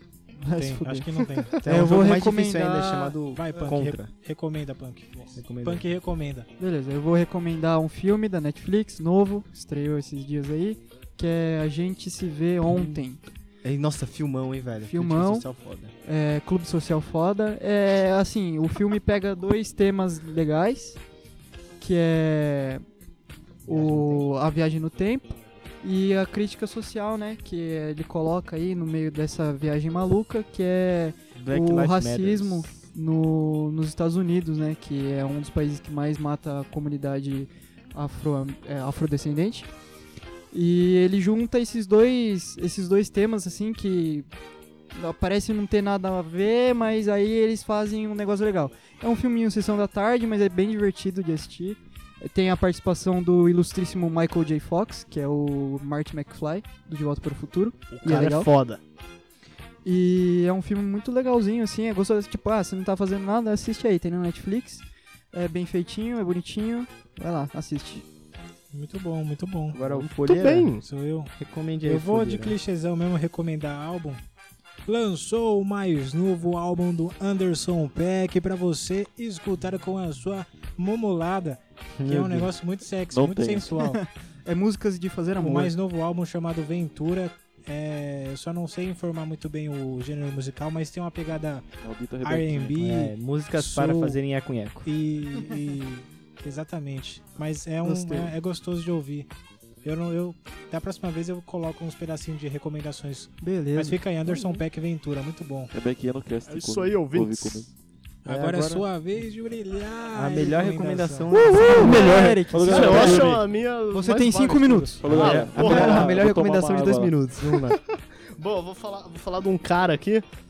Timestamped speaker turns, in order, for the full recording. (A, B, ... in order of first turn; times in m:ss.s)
0:00.4-0:01.1 A
0:00.6-0:01.6 B
0:01.6-0:04.1 C
0:01.6-0:03.2 A
0:03.3-0:06.5 B
0:05.3-0:05.8 C
0:06.6-0:13.2 A
0:12.7-0:13.0 C
0:13.6-0:15.9 C
0:14.9-0:15.5 A
0:16.0-0:21.0 A
0:21.8-0:22.8 A
0:23.6-0:24.2 C
0:23.7-0:39.7 A
0:31.4-0:32.7 C
0:40.5-0:44.3 A
0:44.9-0:58.5 A
0:57.9-0:58.8 D
0:59.8-1:08.0 A
1:08.7-1:09.8 B
1:09.7-1:10.8 C
1:09.9-1:10.8 D
1:10.8-1:11.3 B
1:11.4-1:12.6 C
1:11.8-1:14.2 B
1:14.8-1:24.0 B
1:22.0-1:22.5 C
1:23.1-1:23.8 E
1:23.8-1:25.7 A
1:25.4-1:31.6 B
1:31.8-1:32.7 E
1:32.2-1:34.2 B
1:32.8-1:34.9 C
1:34.8-1:39.3 B
1:37.8-1:38.3 A
1:39.8-1:45.7 B
1:43.4-1:44.6 A
1:45.7-1:47.7 E
1:46.5-1:47.7 D
1:48.2-1:51.9 B
1:48.3-1:48.9 C
1:50.1-1:52.4 C
1:51.3-1:53.3 A
1:51.6-1:56.1 D
1:51.8-1:53.4 E
1:53.9-1:56.0 A
1:55.0-1:57.1 E
1:55.1-1:57.8 C
1:57.5-1:57.8 D
1:58.4-2:00.2 D